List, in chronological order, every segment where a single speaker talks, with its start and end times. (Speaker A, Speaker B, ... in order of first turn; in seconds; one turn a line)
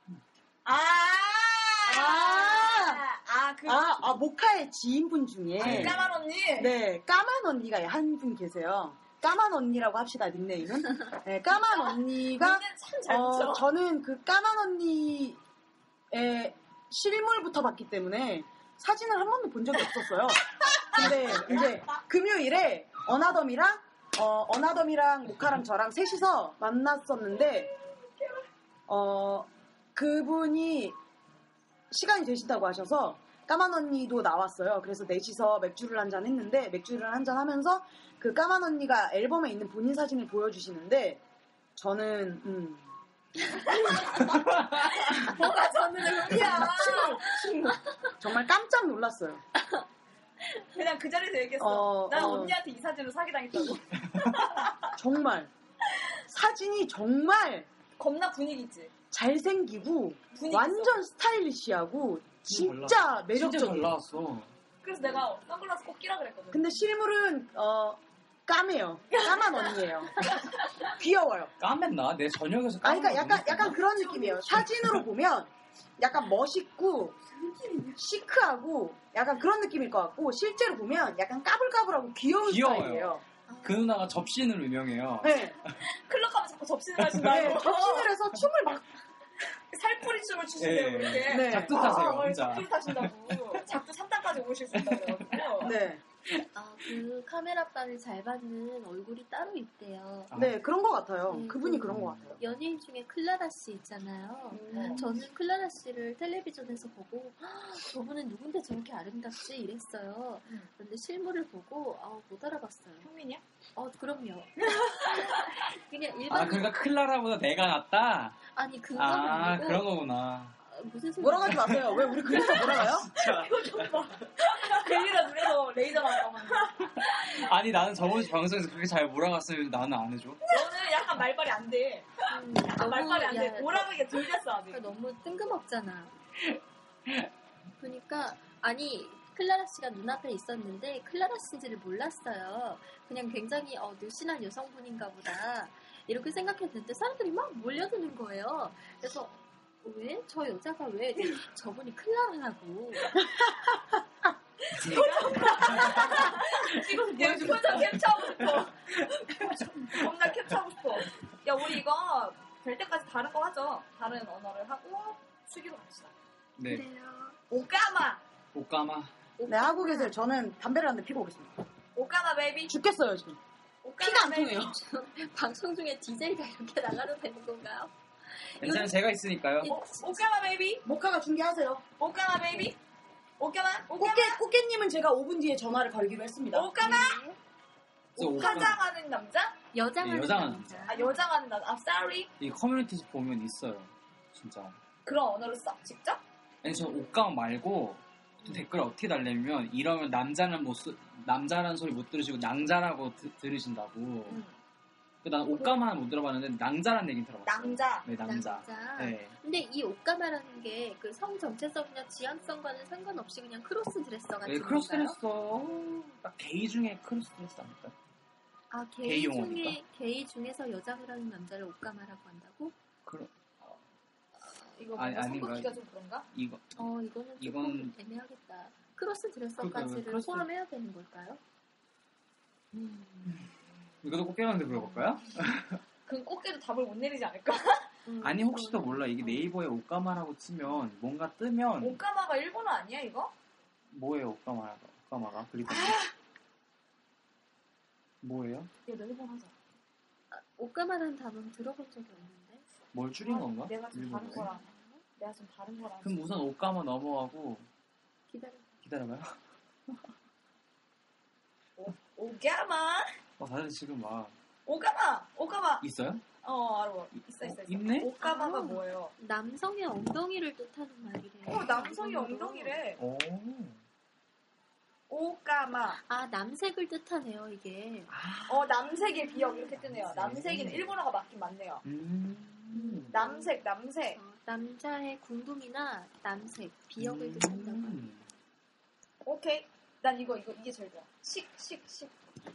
Speaker A: 0.7-3.9
Speaker B: 1.4-3.0
Speaker B: 3.7-6.0
Speaker C: 5.6-6.1
Speaker A: 5.6-6.8
Speaker B: 6.5-15.4
Speaker A: 11.7-13.7
Speaker B: 16.1-27.7
Speaker A: 20.9-22.0
Speaker B: 28.9-31.0
Speaker B: 31.9-41.2
Speaker B: 41.8-42.9
Speaker A: 43.7-47.8
Speaker B: 46.0-49.4
Speaker A: 50.7-54.9
Speaker B: 51.6-52.6
Speaker B: 54.9-55.5
Speaker B: 56.3-57.7
Speaker A: 58.0-58.9
Speaker B: 59.1-63.9
Speaker A: 60.3-61.0
Speaker C: 62.5-64.5
Speaker A: 64.8-66.8
Speaker B: 66.5-70.3
Speaker A: 69.1-70.4
Speaker B: 70.8-71.5
Speaker C: 71.6-73.8
Speaker B: 72.8-77.2
Speaker A: 73.8-74.5
Speaker A: 77.4-77.9
Speaker B: 77.9-83.2
Speaker C: 82.4-85.4
Speaker D: 83.5-84.1
Speaker B: 85.2-85.6
Speaker A: 85.9-88.1
Speaker C: 87.0-87.6
Speaker B: 87.2-88.9
Speaker A: 89.7-95.8
Speaker C: 90.6-93.6
Speaker B: 91.3-92.0
Speaker C: 94.8-95.5
Speaker B: 95.6-96.0
Speaker D: 96.5-100.3
Speaker C: 100.3-100.6
Speaker B: 100.3-102.4
Speaker D: 101.3-113.1
Speaker C: 101.9-102.4
Speaker A: 104.5-105.0
Speaker B: 104.7-105.0
Speaker A: 113.0-113.4
Speaker D: 113.8-116.8
Speaker A: 114.9-115.3
Speaker C: 116.3-118.4
Speaker D: 118.5-119.9
Speaker C: 119.0-120.6
Speaker D: 120.7-122.5
Speaker B: 121.2-123.1
Speaker C: 122.3-124.1
Speaker A: 123.2-127.3
Speaker C: 127.1-130.5
Speaker A: 130.5-134.8
Speaker D: 132.3-133.9
Speaker D: 134.7-136.1
Speaker D: 137.8-153.2
Speaker A: 154.7-166.1
Speaker C: 154.7-160.0
Speaker C: 166.6-166.9
Speaker D: 166.7-167.4
Speaker A: 167.5-168.2
Speaker C: 168.5-169.1
Speaker D: 169.4-170.2
Speaker B: 169.5-171.6
Speaker A: 172.0-172.8
Speaker B: 172.7-173.4
Speaker A: 173.8-174.7
Speaker B: 174.0-174.8
Speaker D: 174.7-178.9
Speaker C: 178.6-179.8
Speaker D: 179.6-180.2
Speaker A: 179.6-180.8
Speaker B: 180.8-181.8
Speaker A: 182.0-182.8
Speaker A: 183.4-184.4
Speaker B: 184.0-186.7
Speaker A: 186.5-187.2
Speaker D: 186.8-187.4
Speaker A: 188.2-189.6
Speaker C: 188.2-188.8
Speaker D: 188.4-188.7
Speaker D: 189.7-191.2
Speaker C: 190.0-191.0
Speaker A: 190.9-192.3
Speaker C: 192.4-194.8
Speaker A: 195.1-196.2
Speaker C: 196.6-204.4
Speaker A: 204.3-204.6
Speaker C: 205.2-209.3
Speaker A: 207.4-208.1
Speaker D: 208.2-215.2
Speaker C: 214.4-217.9
Speaker D: 218.7-222.8
Speaker C: 219.0-219.8
Speaker C: 223.1-223.8
Speaker A: 224.8-226.3
Speaker C: 224.9-225.8
Speaker C: 226.3-226.9
Speaker D: 226.8-231.4
Speaker C: 227.4-227.9
Speaker C: 229.6-230.5
Speaker D: 232.7-233.4
Speaker C: 234.0-235.8
Speaker D: 234.8-235.0
Speaker A: 236.1-237.9
Speaker D: 238.1-239.5
Speaker C: 238.2-242.0
Speaker A: 241.8-243.3
Speaker C: 243.9-246.0
Speaker A: 245.7-246.1
Speaker C: 248.2-248.7
Speaker A: 248.9-249.6
Speaker D: 250.3-252.6
Speaker C: 252.9-254.5
Speaker A: 253.2-256.2
Speaker D: 254.4-255.0
Speaker C: 256.0-257.7
Speaker D: 258.3-258.7
Speaker C: 258.8-259.4
Speaker A: 261.8-263.1
Speaker C: 263.4-264.4
Speaker A: 264.7-265.9
Speaker C: 265.8-266.2
Speaker A: 266.4-269.1
Speaker C: 267.4-268.1
Speaker D: 268.2-272.8
Speaker A: 271.4-273.0
Speaker C: 273.0-273.8
Speaker A: 275.1-276.0
Speaker D: 276.1-278.1
Speaker C: 278.1-278.7
Speaker A: 278.5-281.8
Speaker D: 279.2-279.7
Speaker C: 279.8-280.9
Speaker C: 281.8-283.2
Speaker D: 282.7-283.5
Speaker A: 283.1-284.2
Speaker D: 284.1-288.1
Speaker C: 287.0-288.3
Speaker A: 289.2-292.1